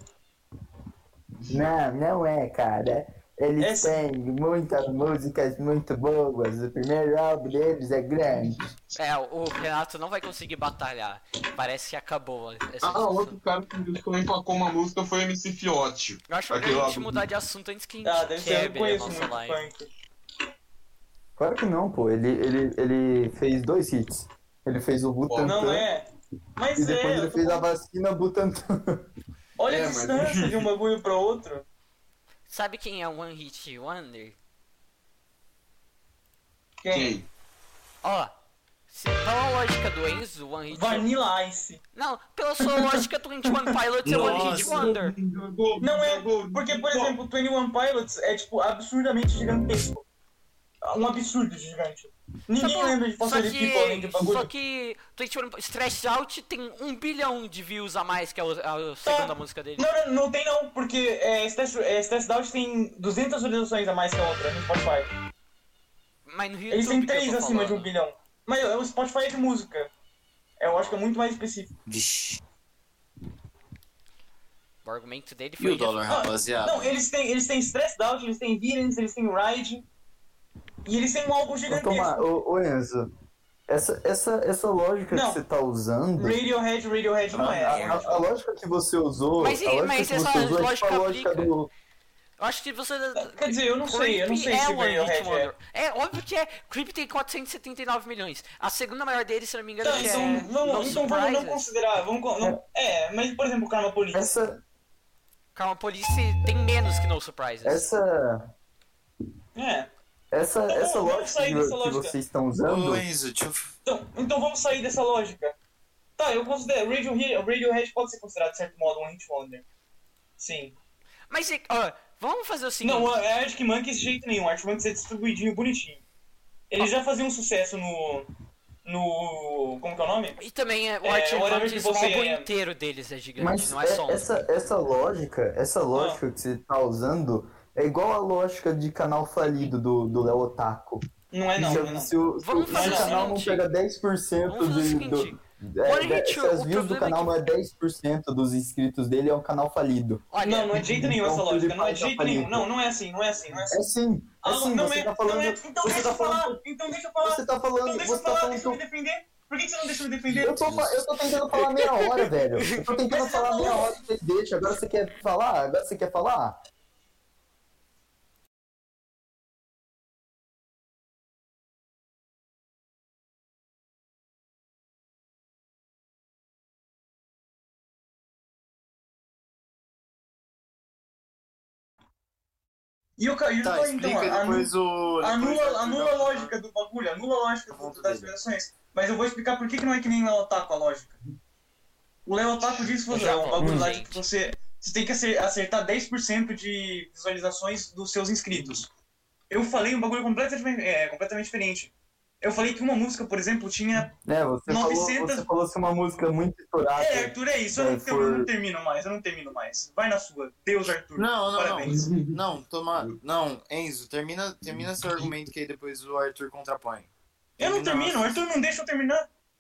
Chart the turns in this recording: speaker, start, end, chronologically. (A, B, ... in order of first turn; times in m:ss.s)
0:01.5-0:08.6 A
0:03.6-0:04.0 B
0:08.3-0:08.7 C
0:09.0-0:13.4 D
0:12.8-0:17.2 C
0:16.3-0:19.6 D
0:18.0-0:19.9 B
0:21.4-0:25.9 A
0:25.3-0:25.6 C
0:25.4-0:27.7 B
0:26.8-0:29.1 A
0:29.6-0:31.6 B
0:29.7-0:30.7 C
0:32.5-0:34.4 D
0:36.8-0:37.1 B
0:36.9-0:37.3 C
0:38.0-0:38.3 D
0:38.9-0:41.1 D
0:40.7-0:41.8 B
0:41.9-0:45.2 D
0:42.6-0:43.7 B
0:44.0-0:44.9 E
0:44.1-0:47.2 C
0:45.8-0:50.0 B
0:50.8-0:54.5 B
0:52.6-0:59.9 D
0:59.0-1:05.1 B
1:06.3-1:07.9 D
1:06.7-1:09.9 B
1:10.6-1:11.7 B
1:11.9-1:12.4 E
1:14.8-1:16.2 D
1:15.6-1:17.0 E
1:16.1-1:19.8 B
1:20.8-1:22.2 B
1:21.7-1:23.1 A
1:23.7-1:26.4 A
1:25.1-1:25.4 B
1:26.2-1:28.2 B
1:27.3-1:31.7 A
1:27.6-1:28.1 D
1:29.4-1:31.5 D
1:32.4-1:41.6 D
1:33.2-1:35.5 B
1:39.8-1:44.3 B
1:44.1-1:44.6 A
1:45.6-1:47.8 D
1:47.6-1:48.5 A
1:49.6-1:49.9 B
1:50.3-1:53.0 A
1:50.7-1:52.2 B
1:52.6-1:53.7 E
1:53.9-1:55.6 B
1:56.2-1:59.6 B
2:00.4-2:00.8 B
2:01.3-2:03.2 D
2:02.8-2:06.0 B
2:06.7-2:08.3 B
2:08.8-2:10.4 B
2:10.4-2:14.3 D
2:11.0-2:12.5 B
2:13.4-2:21.0 A
2:15.9-2:16.2 B
2:21.3-2:22.1 B
2:21.6-2:30.2 A
2:22.4-2:23.6 D
2:22.7-2:23.4 B
2:24.5-2:27.3 D
2:30.3-2:30.8 D
2:30.4-2:33.8 B
2:30.8-2:32.7 A
2:33.7-2:36.6 A
2:34.4-2:40.7 B
2:37.2-2:38.8 A
2:40.3-2:46.6 A
2:42.6-2:43.0 D
2:43.1-2:44.0 B
3:03.2-3:11.2 B
3:03.6-3:06.6 E
3:07.7-3:08.4 E
3:12.3-3:18.9 B
3:13.1-3:14.2 D
3:13.6-3:13.9 A
3:19.5-3:24.1 B
3:24.2-3:28.5 A
3:24.7-3:25.5 B
3:27.0-3:32.1 B
3:31.2-3:38.4 E
3:31.8-3:32.4 C
3:34.7-3:35.4 C
3:37.6-3:39.3 B